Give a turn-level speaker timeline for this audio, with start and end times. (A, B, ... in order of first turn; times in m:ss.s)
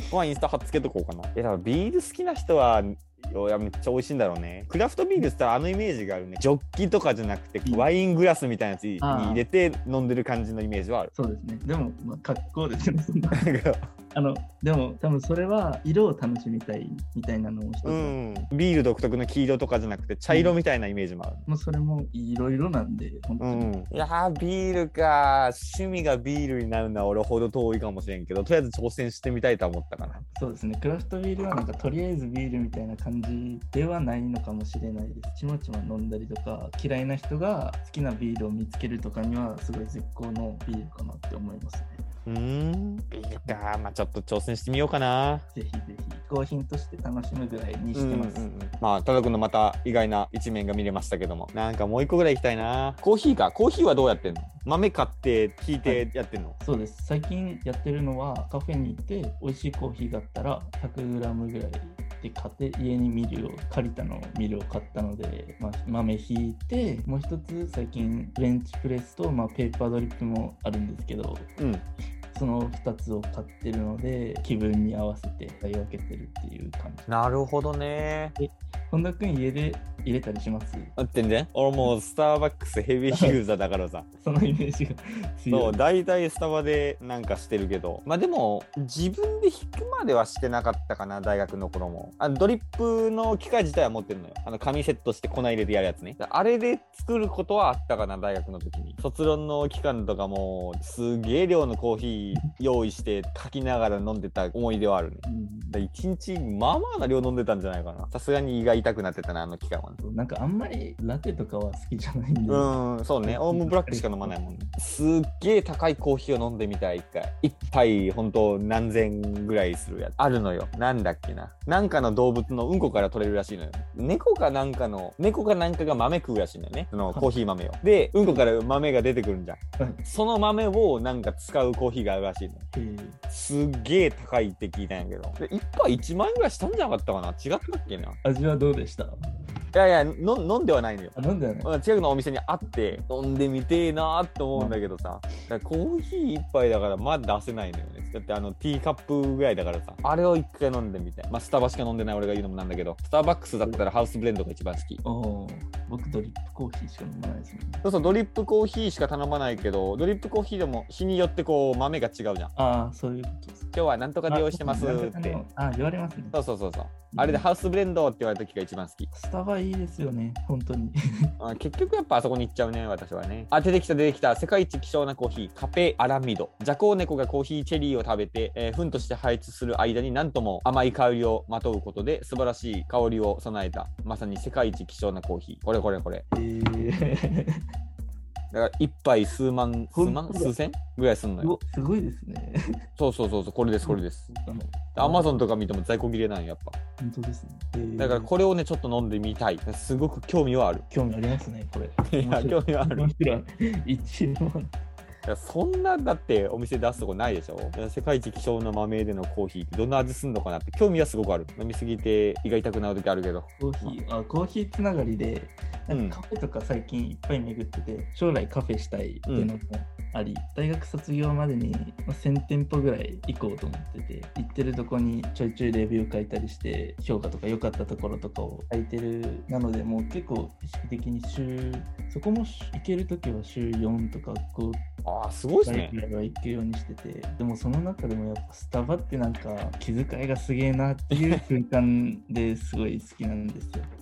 0:00.1-0:11.1 A
0:09.0-0:09.4 B
0:11.1-0:13.5 B
0:13.3-0:13.8 A
0:14.1-0:18.5 B
0:17.8-0:21.4 A
0:20.3-0:20.6 B
0:21.4-0:23.7 B
0:23.4-0:30.2 A
0:30.2-0:42.0 B
0:42.2-0:45.4 A
0:45.5-0:48.5 B
0:47.9-0:56.6 A
0:56.6-1:11.5 B
1:11.6-1:11.8 A
1:12.3-1:17.1 B
1:17.1-1:18.4 A
1:18.4-1:20.9 B
1:21.0-1:24.1 A
1:23.1-1:23.4 B
1:24.2-1:25.8 B
1:25.5-1:50.0 A
1:45.2-1:45.8 B
1:50.0-1:54.7 B
1:52.5-2:12.6 A
2:07.0-2:07.3 B
2:12.7-2:13.2 B
2:13.3-2:18.2 A
2:18.2-2:19.1 B
2:19.7-2:35.0 A
2:21.1-2:21.7 B
2:24.5-2:24.8 B
2:35.0-2:37.8 B
2:37.8-2:42.5 A
2:42.5-2:43.7 B
2:43.7-2:45.4 A
2:44.3-2:46.3 B
2:46.3-2:49.1 A
2:47.1-2:47.4 B
2:49.1-2:51.3 B
2:51.4-3:06.2 A
3:06.3-3:07.6 B
3:08.5-3:11.5 A
3:09.9-3:10.5 B
3:11.4-3:12.6 B
3:13.0-3:14.3 A
3:13.8-3:15.4 B
3:14.9-3:16.8 A
3:17.0-3:18.3 B
3:18.0-3:20.8 A
3:20.9-3:24.7 B
3:22.0-3:23.1 A
3:25.2-3:34.0 A
3:33.6-3:54.8 B
3:35.9-3:36.2 A
3:39.2-3:39.5 A
3:55.0-3:56.0 A
3:55.6-4:03.9 B
4:01.1-4:01.4 A